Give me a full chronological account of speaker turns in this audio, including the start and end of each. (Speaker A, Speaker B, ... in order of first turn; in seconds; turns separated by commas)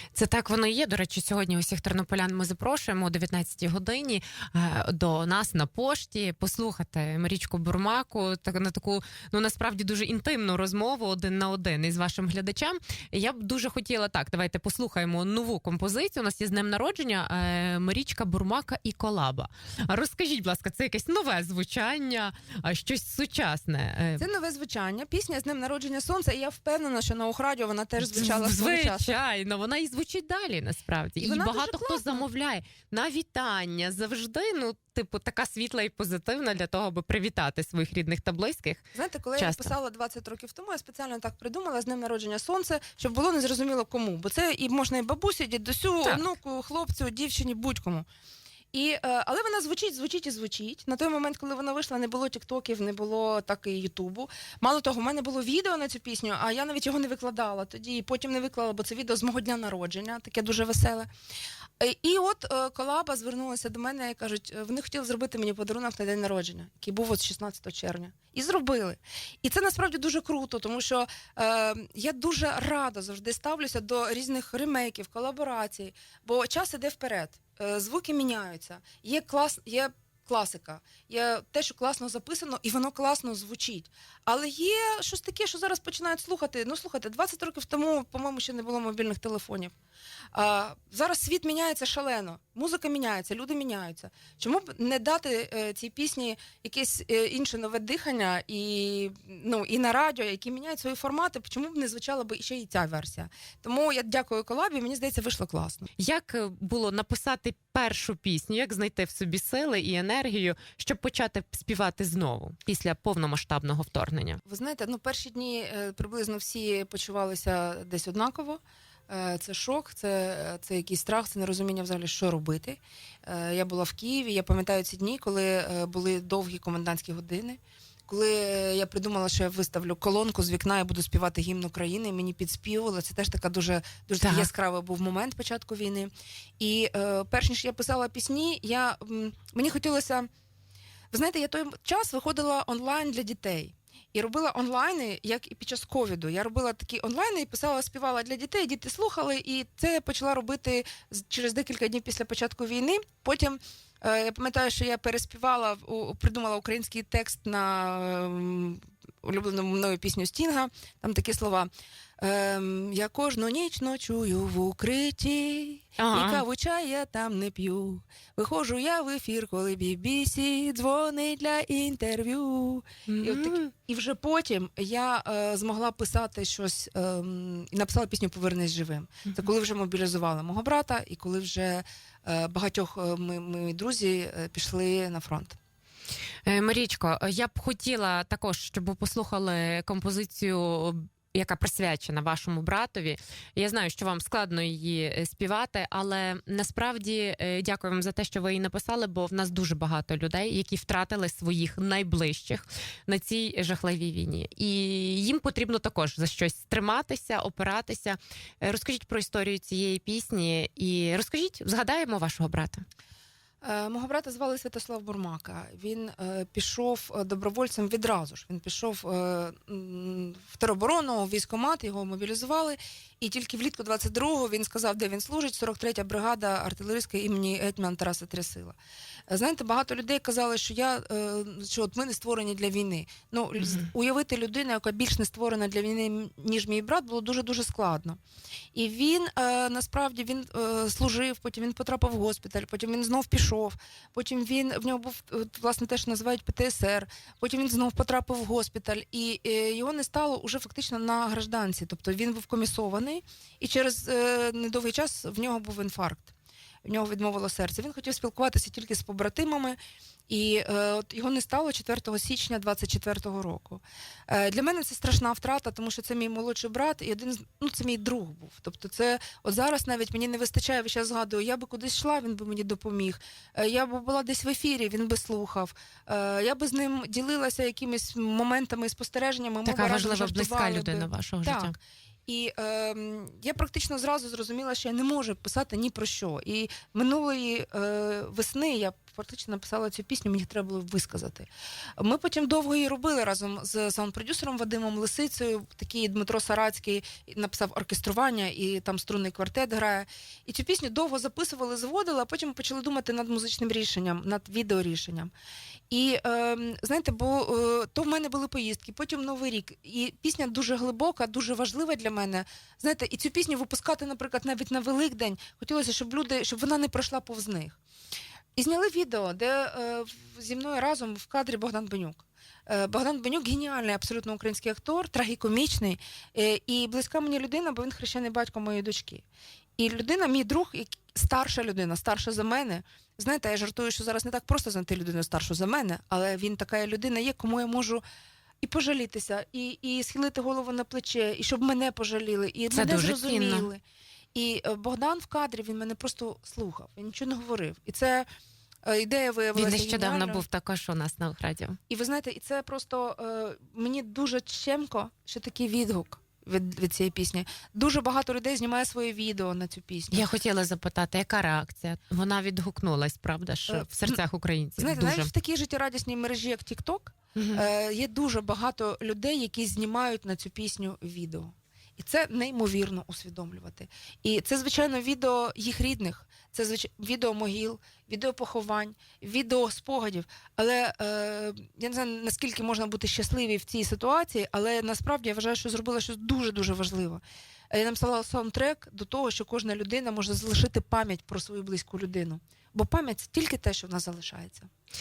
Speaker A: 0.1-24.2, Speaker B: 24.2-29.2, Speaker A: 28.0-38.9, Speaker B: 31.2-32.2, Speaker B: 39.0-48.1, Speaker A: 39.4-39.7, Speaker B: 48.7-61.1, Speaker B: 61.8-89.7, Speaker B: 90.3-105.9, Speaker A: 106.0-114.4, Speaker B: 114.5-140.3, Speaker A: 134.2-134.5, Speaker B: 141.1-185.6, Speaker A: 166.0-166.4, Speaker A: 173.1-173.7, Speaker A: 186.5-212.8, Speaker B: 213.6-228.8, Speaker B: 229.3-238.2, Speaker B: 238.7-256.3, Speaker B: 256.9-259.8, Speaker B: 260.3-281.8, Speaker A: 279.6-281.8, Speaker B: 282.3-305.3, Speaker B: 305.9-317.8, Speaker B: 318.6-329.2, Speaker B: 329.8-338.0, Speaker B: 338.6-343.8, Speaker A: 342.7-343.7, Speaker B: 344.3-348.3, Speaker B: 348.9-350.4, Speaker A: 349.6-351.8, Speaker B: 351.9-360.3, Speaker A: 360.1-365.3, Speaker B: 363.7-364.2, Speaker B: 364.8-394.7, Speaker A: 367.4-367.6